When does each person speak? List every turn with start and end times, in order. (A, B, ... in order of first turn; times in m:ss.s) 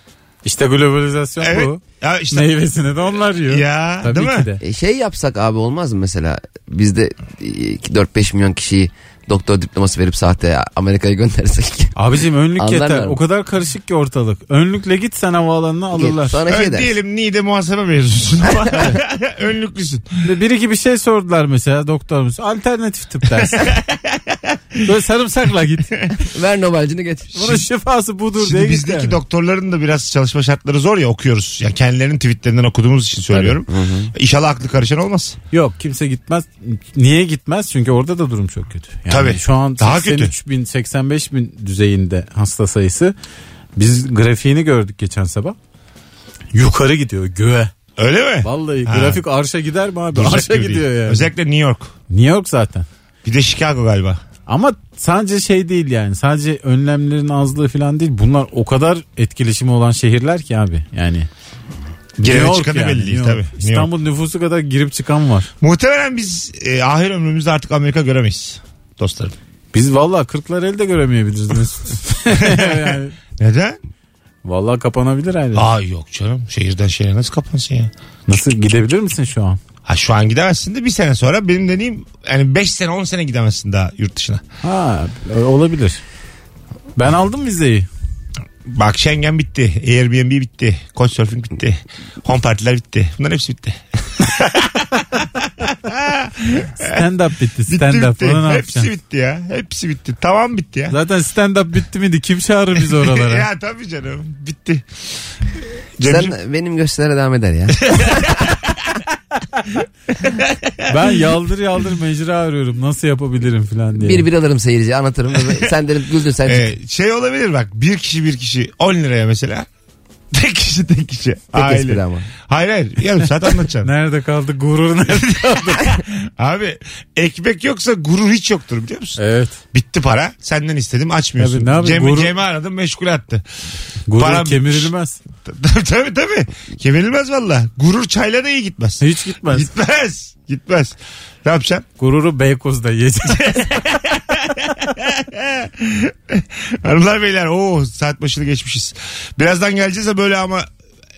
0:00.4-0:01.8 A
0:01.4-0:02.5 B
0:02.3-0:04.6 A
0:03.5-0:04.5 B
0:04.6-0:11.9 C
0:12.0-0:16.4 A
0:12.6-0:13.2 C
0:16.0-0:16.9 C
0:16.5-0:20.1 B
0:18.7-0:19.0 C
0:20.2-0:23.7 A
0:23.4-0:24.6 B
0:24.8-0:26.0 A
0:26.2-0:27.6 C
0:27.4-0:29.2 A
0:28.4-0:35.4 B
0:33.7-0:34.1 C
0:35.5-0:43.2 A
0:39.1-0:40.3 B
0:43.8-0:45.6 A
0:46.5-0:47.7 A
0:48.0-0:49.2 B
0:48.4-0:51.3 A
0:50.1-0:51.9 B
0:52.1-0:52.9 A
0:53.2-0:54.2 B
0:54.5-1:01.3 A
1:02.2-1:05.5 A
1:02.2-1:03.9 B
1:05.6-1:09.4 B
1:09.7-1:13.2 A
1:12.3-1:13.8 B
1:14.4-1:15.7 A
1:15.6-1:17.9 B
1:18.3-1:19.6 A
1:19.9-1:24.4 B
1:24.6-1:26.0 A
1:27.0-1:27.9 A
1:28.7-1:37.0 B
1:36.8-1:38.9 A
1:37.7-1:41.0 B
1:40.9-1:43.5 A
1:42.9-1:44.9 B
1:46.0-1:46.3 B
1:46.0-1:48.4 C
1:47.9-1:48.8 B
1:50.2-1:50.9 B
1:50.9-1:54.3 A
1:54.0-1:56.6 C
1:56.4-1:59.7 B
2:00.3-2:03.9 B
2:01.5-2:02.3 C
2:03.8-2:05.9 A
2:05.1-2:09.2 B
2:09.2-2:09.6 A
2:09.7-2:13.4 B
2:11.4-2:12.3 A
2:14.1-2:15.2 A
2:14.1-2:14.9 B
2:15.4-2:21.8 B
2:19.0-2:19.7 A
2:22.0-2:23.7 A
2:23.4-2:30.7 B